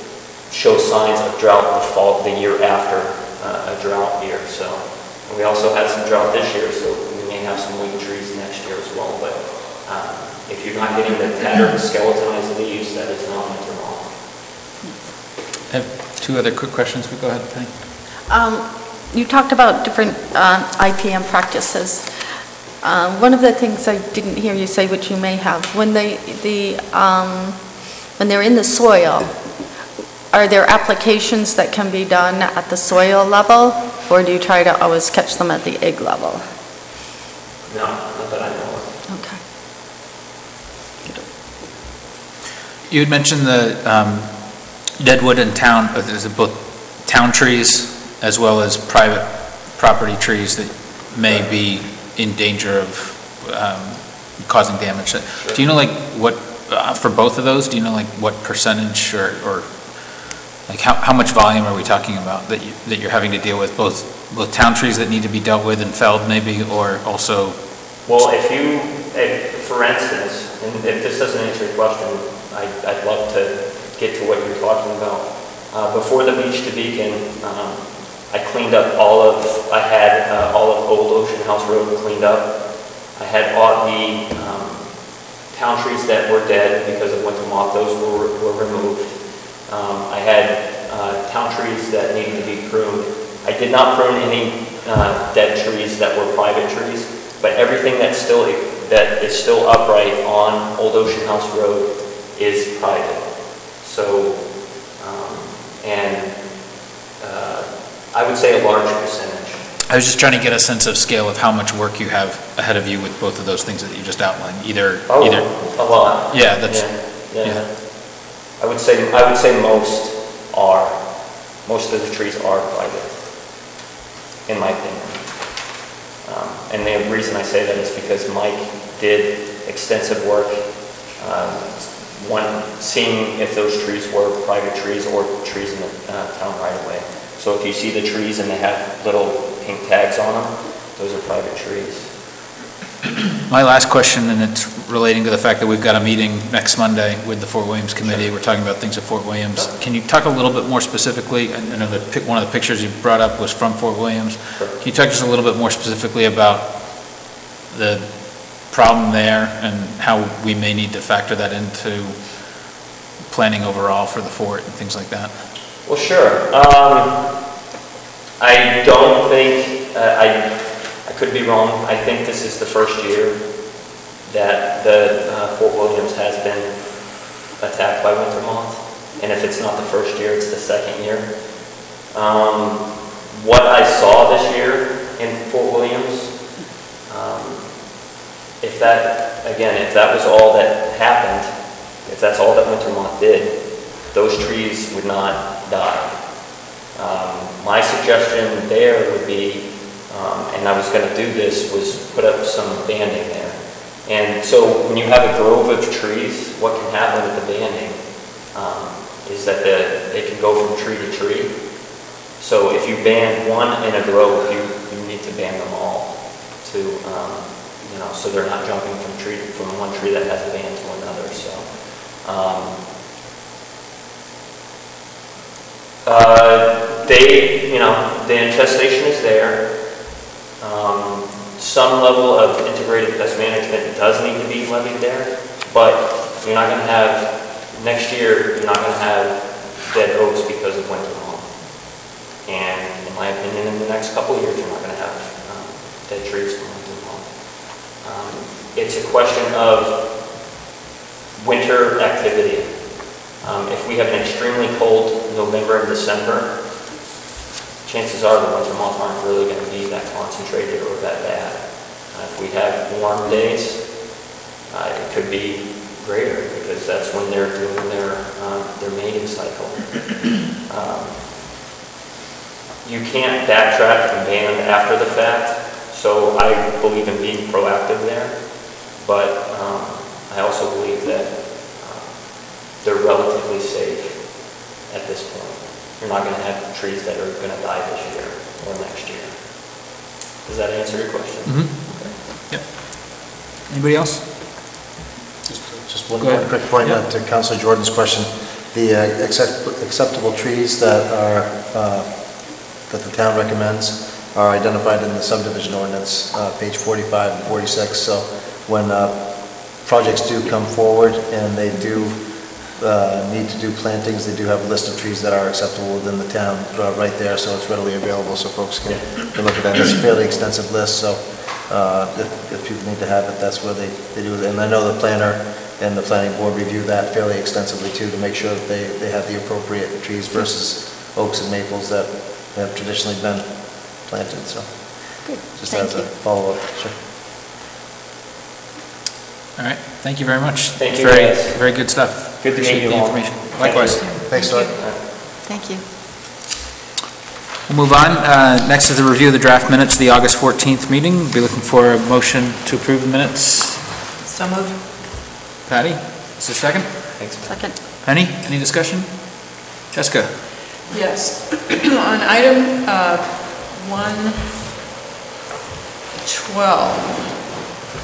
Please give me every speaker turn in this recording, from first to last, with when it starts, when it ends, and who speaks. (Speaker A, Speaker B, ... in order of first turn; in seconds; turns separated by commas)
Speaker A: 0.5-14.1, Speaker B: 15.7-17.8, Speaker C: 18.3-22.1, Speaker C: 22.8-29.4, Speaker C: 30.3-36.4, Speaker A: 37.7-38.9, Speaker C: 39.1-39.4, Speaker C: 41.0-41.3, Speaker B: 42.9-67.6, Speaker A: 55.4-55.6, Speaker A: 68.1-82.6, Speaker A: 83.1-85.0, Speaker A: 85.5-104.5, Speaker A: 105.0-106.4, Speaker A: 107.2-109.6, Speaker B: 109.9-117.7, Speaker A: 115.1-123.2, Speaker A: 124.5-142.1, Speaker B: 143.5-165.5, Speaker A: 148.0-148.3, Speaker A: 165.8-167.3, Speaker A: 168.4-173.4, Speaker A: 174.3-181.3, Speaker A: 182.1-186.4, Speaker A: 187.1-187.7, Speaker A: 188.6-191.5, Speaker A: 192.0-211.6, Speaker A: 212.4-222.8, Speaker A: 226.0-229.8, Speaker A: 230.6-241.9, Speaker A: 242.4-250.0, Speaker A: 251.4-256.5, Speaker A: 257.8-264.1, Speaker A: 264.7-271.2, Speaker A: 272.8-289.4, Speaker A: 290.4-292.0, Speaker B: 291.5-294.5, Speaker D: 295.5-337.0, Speaker B: 296.2-297.0, Speaker C: 335.7-336.0, Speaker B: 339.6-344.2, Speaker A: 340.8-345.0, Speaker E: 343.6-344.8, Speaker D: 344.2-344.7, Speaker B: 347.7-354.0, Speaker E: 354.2-355.1, Speaker B: 355.6-360.5, Speaker A: 357.2-357.5, Speaker C: 357.4-357.8, Speaker F: 360.9-364.7, Speaker F: 366.2-367.4